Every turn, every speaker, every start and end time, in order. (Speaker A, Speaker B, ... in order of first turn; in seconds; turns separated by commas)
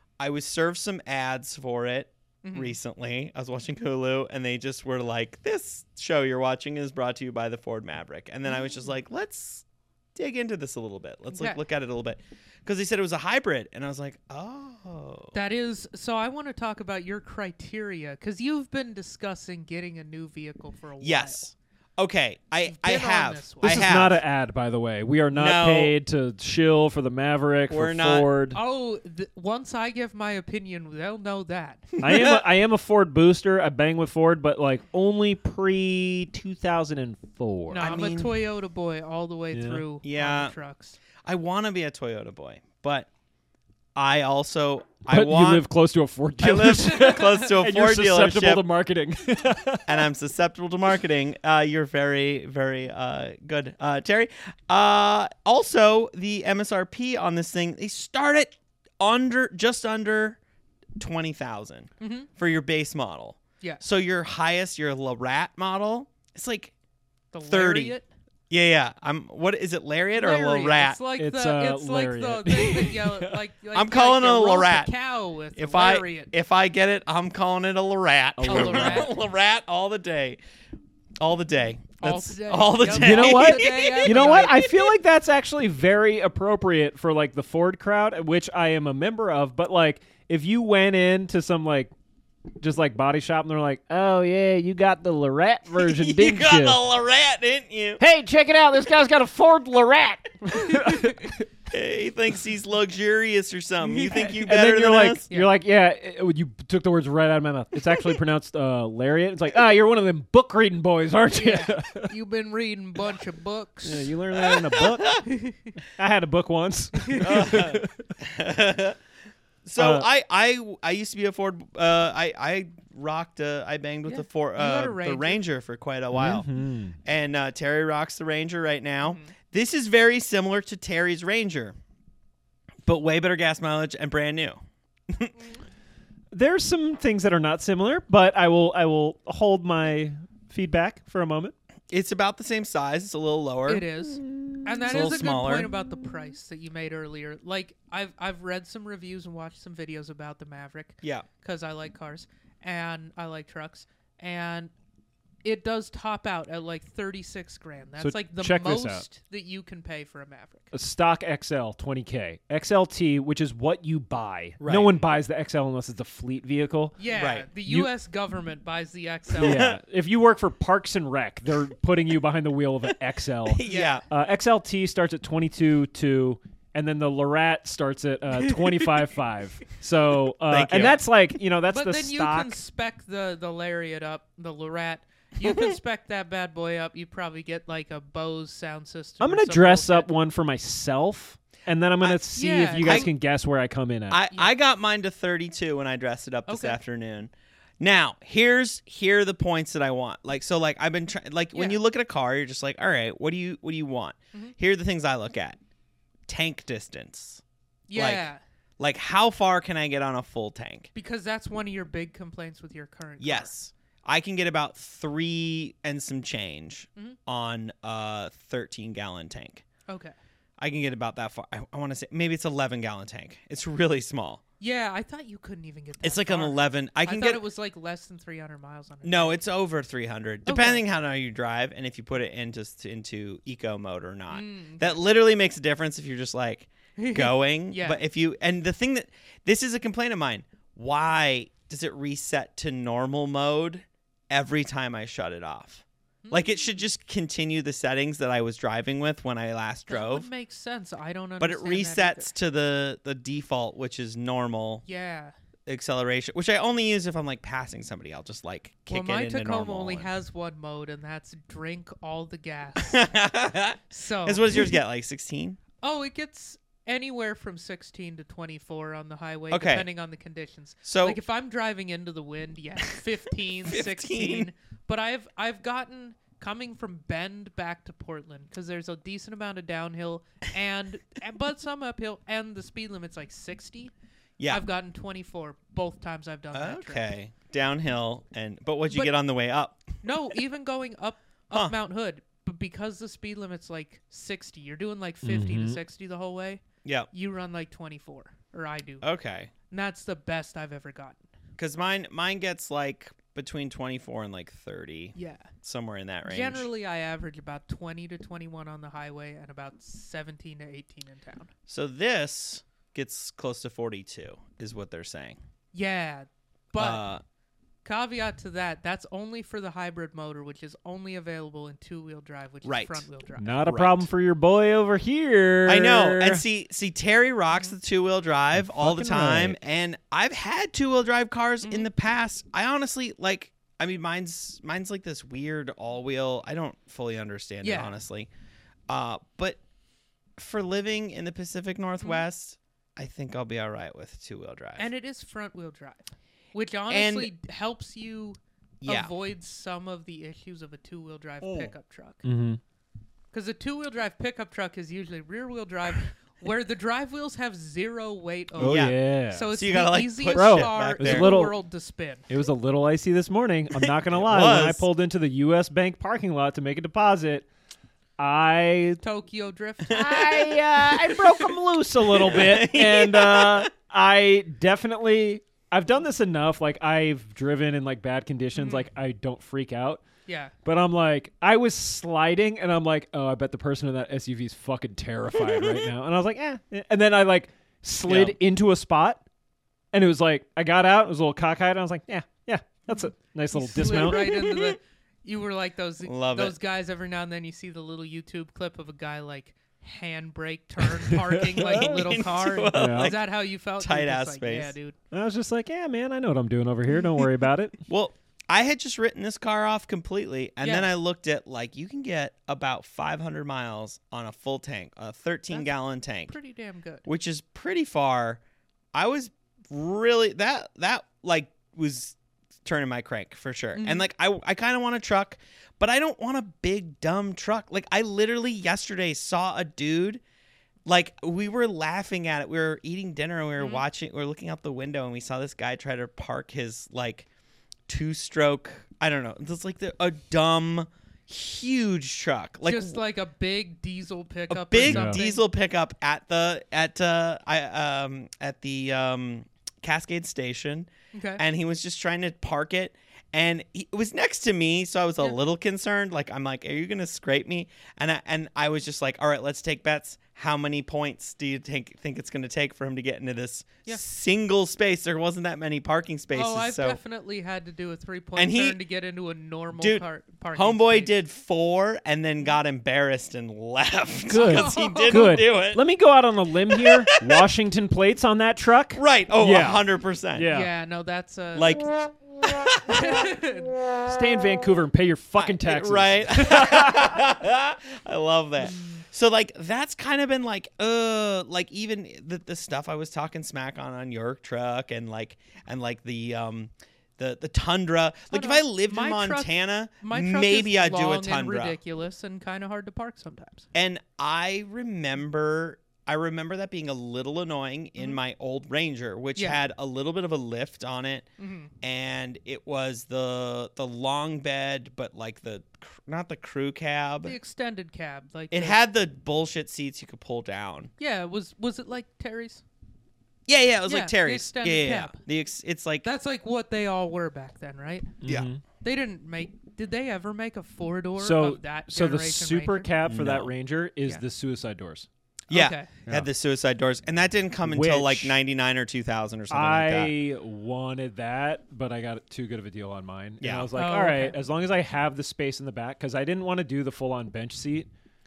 Speaker A: 0.2-15.3, Speaker B: 2.4-2.8, Speaker B: 11.3-11.6, Speaker B: 15.3-21.4, Speaker A: 21.0-24.2, Speaker B: 22.6-24.0, Speaker C: 23.6-28.6, Speaker A: 25.3-25.9, Speaker A: 27.7-28.3, Speaker B: 28.5-31.9, Speaker A: 31.9-32.4, Speaker C: 32.0-37.9, Speaker B: 37.7-41.0, Speaker A: 37.8-38.3, Speaker C: 39.5-39.8, Speaker A: 40.0-40.5, Speaker A: 41.2-43.1, Speaker A: 44.0-45.6, Speaker C: 45.1-50.0, Speaker A: 46.4-48.6, Speaker B: 47.0-47.4, Speaker A: 49.9-60.4, Speaker A: 61.0-66.7, Speaker B: 62.0-62.3, Speaker B: 67.3-68.1, Speaker A: 67.5-68.0, Speaker A: 68.5-71.0, Speaker B: 70.1-76.3, Speaker C: 71.2-73.4, Speaker A: 73.7-74.9, Speaker A: 75.6-80.4, Speaker C: 78.4-79.1, Speaker B: 78.5-79.1, Speaker A: 81.2-84.9, Speaker B: 82.0-84.6, Speaker C: 82.9-91.9, Speaker C: 92.6-96.8, Speaker A: 95.8-98.0, Speaker C: 98.0-101.5, Speaker A: 101.7-105.3, Speaker C: 104.0-112.1, Speaker B: 111.3-114.1, Speaker C: 113.8-118.2, Speaker A: 114.4-115.2, Speaker B: 115.2-115.7, Speaker B: 117.0-117.5, Speaker A: 117.2-119.0, Speaker A: 119.7-126.5, Speaker C: 119.8-120.1, Speaker B: 124.1-125.4, Speaker C: 126.1-127.0, Speaker A: 127.0-131.8, Speaker B: 129.0-129.3, Speaker A: 132.8-135.3, Speaker C: 136.3-141.5, Speaker A: 141.9-143.9, Speaker B: 143.7-154.7, Speaker A: 144.9-145.7, Speaker B: 155.4-160.7, Speaker C: 158.0-159.1, Speaker C: 160.7-167.0, Speaker A: 164.6-165.1, Speaker B: 167.0-169.7, Speaker A: 167.2-167.5, Speaker C: 167.7-167.9, Speaker A: 169.4-169.8, Speaker C: 169.4-182.6, Speaker A: 173.5-174.0, Speaker B: 173.7-174.0, Speaker B: 178.4-179.1, Speaker A: 180.5-181.0, Speaker B: 181.7-190.1, Speaker A: 185.4-185.7, Speaker C: 189.2-194.2, Speaker B: 192.3-193.1, Speaker A: 192.8-193.1, Speaker A: 194.1-205.6, Speaker B: 196.5-196.8, Speaker B: 201.5-201.8, Speaker A: 206.3-207.4, Speaker B: 207.9-208.4, Speaker A: 207.9-208.3, Speaker A: 208.8-210.9, Speaker B: 210.9-213.5, Speaker A: 213.2-219.6, Speaker B: 219.9-220.1, Speaker A: 220.6-224.4, Speaker B: 224.6-229.4, Speaker A: 226.0-227.4, Speaker A: 229.0-250.3, Speaker B: 230.5-230.8, Speaker B: 234.3-235.0, Speaker B: 237.0-238.0, Speaker B: 246.2-246.8, Speaker B: 249.9-252.3, Speaker A: 251.4-254.8, Speaker B: 254.8-255.3, Speaker A: 255.7-260.1, Speaker B: 258.9-263.0, Speaker A: 262.8-265.6, Speaker B: 263.9-264.7, Speaker B: 265.8-283.9, Speaker A: 269.5-269.9, Speaker A: 270.9-271.2, Speaker A: 273.7-274.5, Speaker B: 284.5-287.1, Speaker A: 286.5-289.8, Speaker B: 290.0-299.1, Speaker C: 295.2-295.8, Speaker A: 299.0-299.5, Speaker B: 299.7-301.3, Speaker A: 301.6-306.7, Speaker B: 305.1-305.5, Speaker B: 306.2-311.5, Speaker A: 311.7-315.4, Speaker B: 315.7-317.0, Speaker A: 316.8-317.2, Speaker B: 317.8-323.6, Speaker A: 322.6-323.0, Speaker C: 323.4-326.4, Speaker A: 323.6-324.1, Speaker A: 325.7-338.3, Speaker C: 328.6-329.6, Speaker B: 337.6-337.9, Speaker A: 338.9-339.6, Speaker A: 340.4-344.9, Speaker B: 344.8-352.2, Speaker A: 346.9-347.3, Speaker A: 348.8-349.1, Speaker A: 351.4-351.7, Speaker C: 352.2-352.6, Speaker B: 353.3-362.3, Speaker C: 358.6-359.5, Speaker A: 358.6-361.3, Speaker C: 360.3-361.6, Speaker C: 362.3-367.5, Speaker A: 363.8-364.9, Speaker C: 368.2-369.0, Speaker B: 369.0-370.2, Speaker A: 369.9-373.7, Speaker C: 369.9-380.0, Speaker B: 378.6-378.9, Speaker B: 380.3-380.5, Speaker C: 380.6-389.2, Speaker A: 388.1-388.4, Speaker C: 389.9-394.5, Speaker B: 392.9-404.9, Speaker A: 394.2-394.8, Speaker A: 396.0-396.6, Speaker C: 401.1-401.9, Speaker A: 401.6-403.2, Speaker C: 402.7-403.1, Speaker A: 403.8-404.7, Speaker C: 405.1-407.8, Speaker A: 407.9-416.4, Speaker B: 410.6-410.9, Speaker B: 416.2-417.1, Speaker A: 417.1-418.4, Speaker A: 418.9-430.2, Speaker B: 423.8-424.1, Speaker A: 430.9-437.3, Speaker B: 433.6-433.8, Speaker A: 437.9-443.0, Speaker B: 442.6-445.4, Speaker A: 444.5-467.0, Speaker C: 444.8-445.2, Speaker B: 451.1-451.4, Speaker B: 466.3-471.1, Speaker A: 468.4-468.8, Speaker A: 469.8-475.8, Speaker C: 474.3-480.7, Speaker B: 474.4-475.3, Speaker A: 476.7-477.5, Speaker A: 479.0-480.5, Speaker B: 480.5-481.8, Speaker A: 481.6-483.2, Speaker B: 482.9-483.7, Speaker C: 484.0-487.2, Speaker A: 485.4-501.8, Speaker B: 498.3-503.7, Speaker A: 503.7-511.3, Speaker B: 511.4-511.7, Speaker A: 511.8-517.4, Speaker B: 517.2-518.8, Speaker A: 518.5-520.9, Speaker B: 521.0-522.6, Speaker A: 523.5-526.1, Speaker B: 523.9-525.2, Speaker B: 526.0-528.1, Speaker C: 528.2-528.6, Speaker B: 528.8-532.9, Speaker C: 531.2-535.1, Speaker A: 533.0-533.5, Speaker A: 535.5-540.1, Speaker B: 535.5-535.9, Speaker C: 537.6-538.4, Speaker C: 539.5-547.9, Speaker A: 543.4-543.7, Speaker B: 543.8-544.4